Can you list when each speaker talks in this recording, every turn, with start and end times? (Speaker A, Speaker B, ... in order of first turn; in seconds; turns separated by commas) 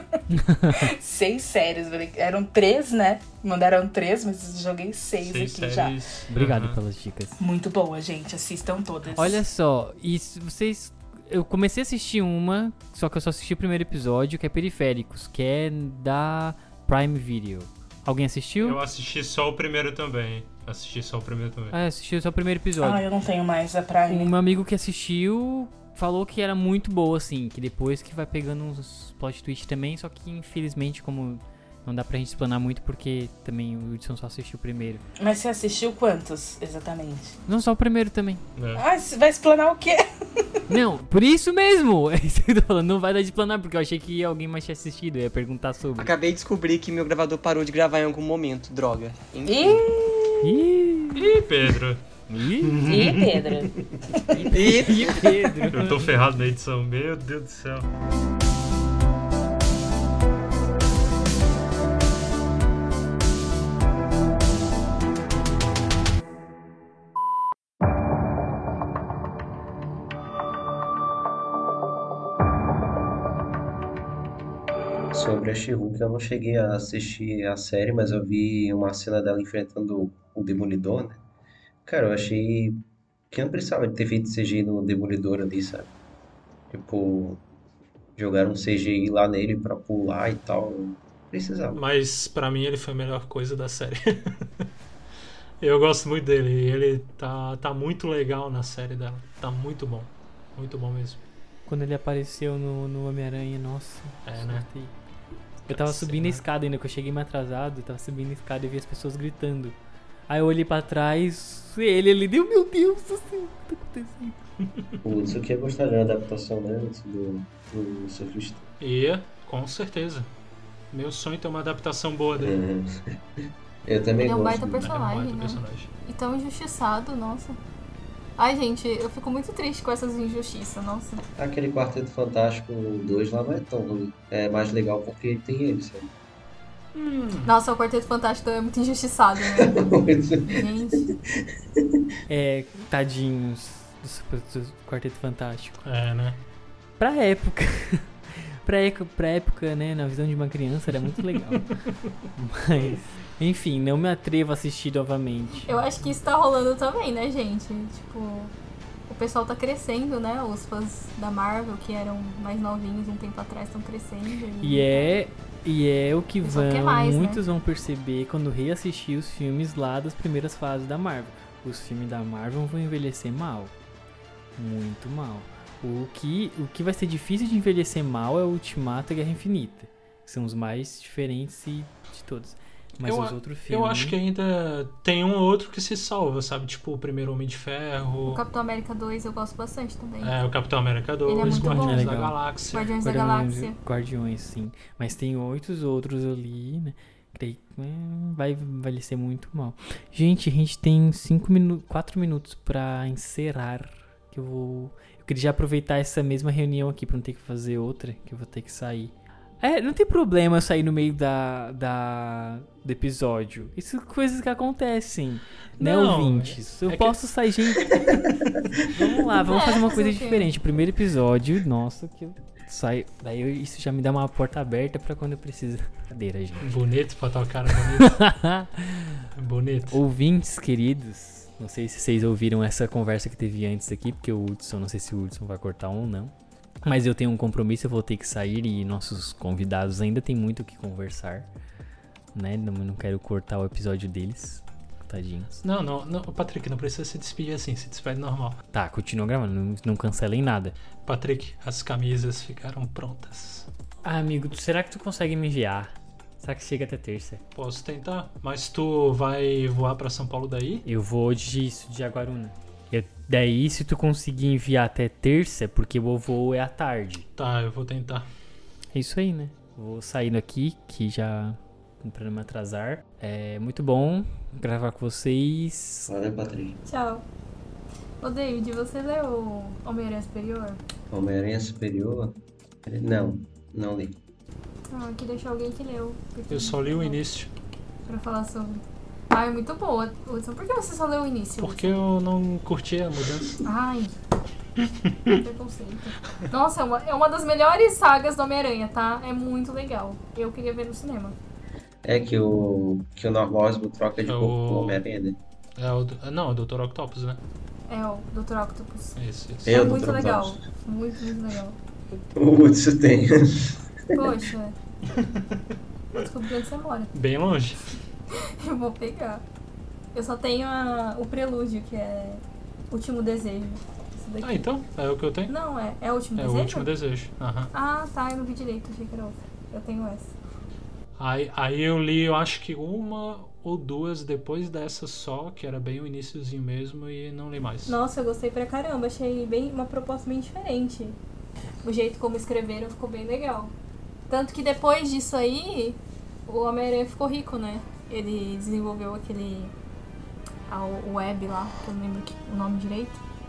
Speaker A: 0.3-0.9, Speaker B: 0.7-6.0, Speaker C: 5.2-6.8, Speaker A: 6.3-7.4, Speaker B: 7.4-9.4, Speaker A: 9.2-18.8, Speaker C: 18.6-21.8, Speaker A: 21.7-23.1, Speaker B: 22.8-24.3, Speaker A: 24.1-35.0, Speaker B: 35.2-37.4, Speaker A: 37.5-38.4, Speaker C: 38.6-38.8, Speaker B: 38.8-40.5, Speaker A: 40.7-46.1, Speaker D: 46.0-49.8, Speaker B: 49.5-50.5, Speaker A: 50.4-51.4, Speaker C: 51.1-52.0, Speaker A: 52.3-52.9, Speaker E: 52.8-53.2, Speaker C: 52.8-53.1, Speaker B: 52.8-54.8, Speaker A: 54.3-56.1, Speaker D: 54.5-55.4, Speaker C: 55.7-57.9, Speaker F: 75.1-81.2, Speaker F: 81.8-82.8, Speaker F: 83.3-85.9, Speaker F: 86.7-87.4, Speaker F: 88.2-91.8, Speaker E: 91.7-94.6, Speaker E: 95.6-101.2, Speaker A: 101.7-104.9, Speaker E: 104.2-104.7, Speaker A: 105.7-109.8, Speaker E: 105.7-106.5, Speaker A: 110.3-114.4, Speaker F: 115.0-118.6, Speaker E: 118.8-120.3, Speaker E: 120.9-122.6, Speaker F: 122.4-123.1, Speaker F: 123.8-124.9, Speaker G: 124.2-127.6, Speaker E: 124.7-125.9, Speaker G: 128.4-131.2, Speaker F: 131.4-136.1, Speaker E: 136.9-137.5, Speaker G: 137.4-139.9, Speaker F: 139.7-141.1, Speaker G: 140.5-141.1, Speaker A: 142.3-145.8, Speaker E: 145.8-146.4, Speaker A: 147.0-151.8, Speaker A: 152.3-155.7, Speaker G: 155.7-158.5, Speaker G: 159.1-165.2, Speaker A: 164.6-173.7, Speaker G: 166.4-167.4, Speaker A: 174.6-184.2, Speaker E: 183.0-188.4, Speaker G: 188.3-190.4, Speaker E: 190.2-193.0, Speaker G: 191.2-193.8, Speaker A: 191.4-192.4, Speaker A: 193.0-218.2, Speaker E: 215.8-217.2, Speaker A: 218.9-226.8, Speaker G: 219.4-220.5, Speaker E: 226.6-228.3, Speaker A: 227.8-229.3, Speaker E: 229.4-230.0, Speaker A: 229.9-241.5, Speaker A: 242.3-245.6, Speaker E: 245.6-248.6, Speaker A: 248.7-250.8, Speaker E: 251.0-253.7, Speaker A: 254.0-257.4, Speaker E: 257.5-260.8, Speaker A: 260.9-267.3, Speaker E: 267.4-268.2, Speaker A: 268.9-276.1, Speaker F: 276.1-276.8, Speaker G: 276.8-277.2, Speaker G: 278.2-280.8, Speaker F: 281.1-282.3, Speaker F: 282.9-284.2, Speaker G: 284.9-287.2, Speaker E: 286.5-287.5, Speaker G: 288.1-292.0, Speaker E: 291.6-293.6, Speaker G: 293.6-294.1, Speaker E: 295.1-295.3, Speaker G: 295.2-301.4, Speaker F: 302.0-305.4, Speaker E: 304.2-305.0, Speaker E: 305.8-307.4, Speaker G: 307.9-311.8, Speaker E: 309.2-309.8, Speaker F: 309.6-310.6, Speaker F: 312.4-314.3, Speaker G: 314.1-314.8, Speaker E: 315.1-315.5, Speaker G: 316.1-317.1, Speaker E: 317.1-317.9, Speaker G: 318.3-319.4, Speaker G: 320.1-324.7, Speaker E: 324.4-325.5, Speaker G: 325.5-326.9, Speaker E: 326.4-327.7, Speaker G: 327.7-330.3, Speaker E: 331.2-338.0, Speaker G: 337.9-341.2, Speaker G: 341.8-343.7, Speaker G: 344.3-349.7, Speaker G: 350.7-353.2